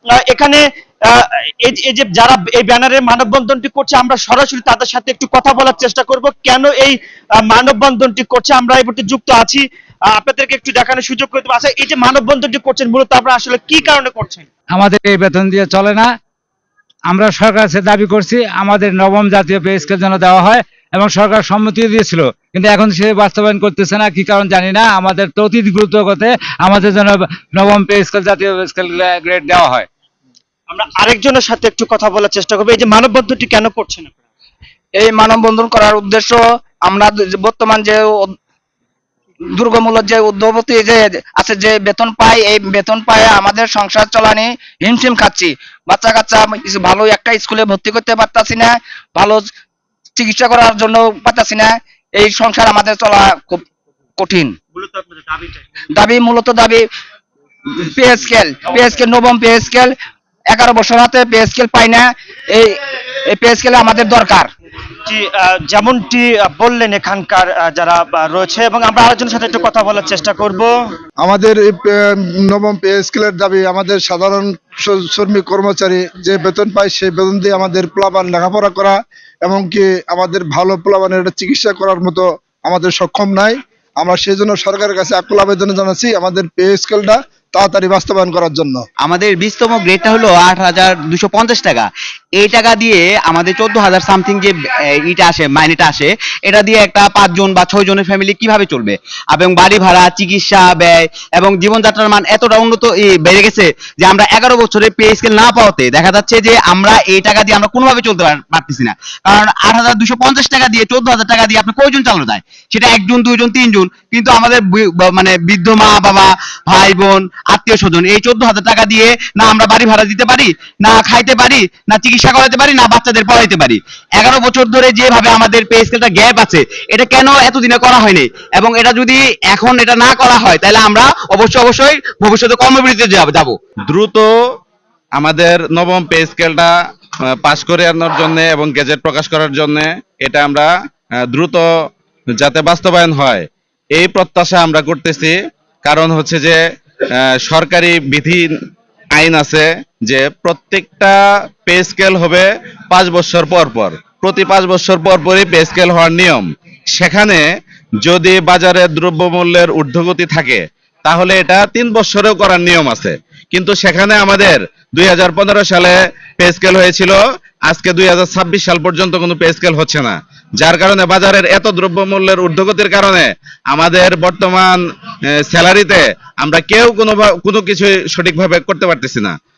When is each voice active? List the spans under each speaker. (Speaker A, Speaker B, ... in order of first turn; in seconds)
Speaker A: 0.2-14.5, 30.7-34.1, 54.7-55.6, 65.0-70.7
Speaker B: 14.7-16.1, 17.1-29.9
Speaker C: 35.0-38.3, 39.5-49.5, 50.1-53.6, 54.2-54.6, 55.9-56.9, 57.8-59.9, 60.5-64.5
Speaker D: 71.2-88.8
Speaker E: 89.1-91.7, 92.4-94.4, 95.1-96.0, 96.9-103.6, 104.2-123.7, 124.2-133.4
Speaker F: 133.9-134.3, 135.2-136.7, 137.3-140.7, 141.2-141.6, 142.3-146.6, 147.2-148.5, 149.1-157.4, 158.0-174.8, 175.4-179.3